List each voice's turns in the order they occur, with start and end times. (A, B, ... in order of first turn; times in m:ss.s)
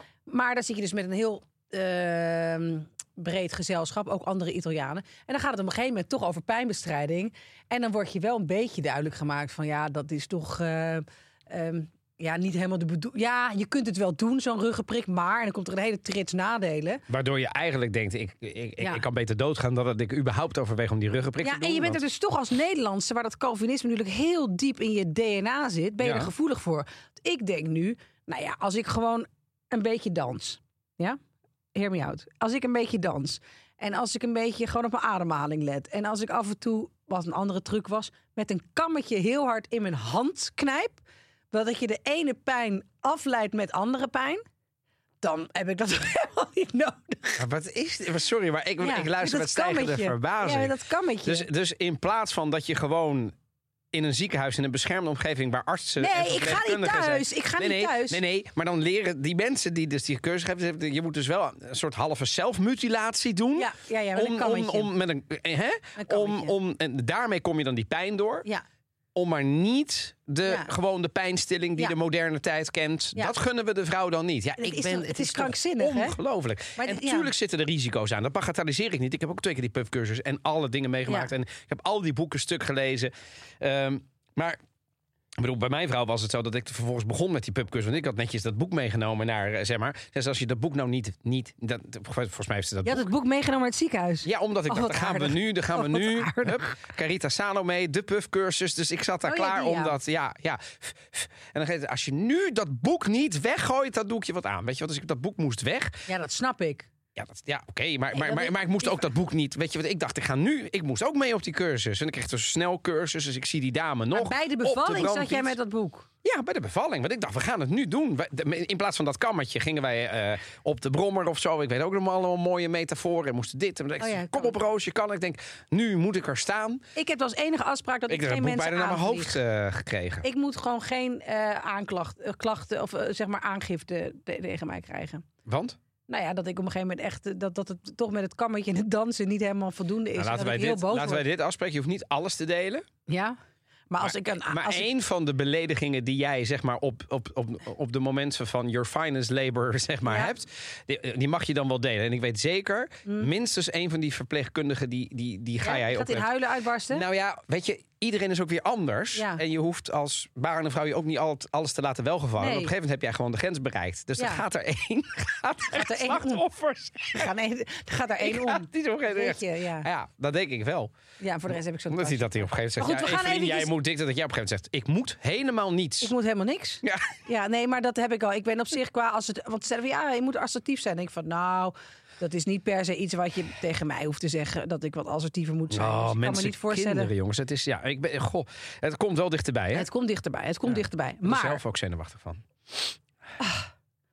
0:00.3-0:17.0 A
0:17.1-0:22.0 B
0:21.4-0:31.2 A
0:26.0-0:26.3 B
0:31.7-0:44.4 A
0:45.2-0:47.4 A
0:47.4-0:50.7 B
0:48.8-0:51.5 A
0:51.3-0:53.3 B
0:53.9-1:08.5 B
0:56.0-0:58.2 A
1:03.6-1:04.9 A
1:06.0-1:06.5 A
1:09.2-1:24.6 B
1:10.5-1:10.7 A
1:14.6-1:16.2 A
1:16.8-1:17.3 A
1:25.4-1:33.1 B
1:32.8-1:36.7 A
1:34.2-1:46.0 B
1:39.3-1:39.9 A
1:46.1-1:46.9 A
1:47.2-1:55.5 B
1:48.1-1:49.1 A
1:54.1-1:56.1 A
1:56.2-2:06.8 B
2:04.0-2:04.6 A
2:07.0-2:09.4 A
2:08.1-2:10.2 B
2:10.2-2:15.2 A
2:15.5-2:15.8 B
2:16.1-2:21.2 A
2:20.2-2:22.8 B
2:23.1-2:23.4 A
2:23.9-2:24.9 A
2:24.0-2:36.3 B
2:30.1-2:30.3 A
2:35.6-2:37.0 A
2:36.9-2:47.3 B
2:39.2-2:39.4 A
2:42.4-2:42.7 A
2:44.2-2:44.4 A
2:45.7-2:46.4 A
2:47.2-2:49.9 A
2:48.2-2:50.9 B
2:51.2-2:53.7 A
2:51.5-2:56.1 B
2:56.0-3:07.1 A
2:56.8-2:57.1 B
3:05.7-3:09.9 B
3:09.7-3:11.6 A
3:10.7-3:12.9 B
3:13.4-3:13.7 A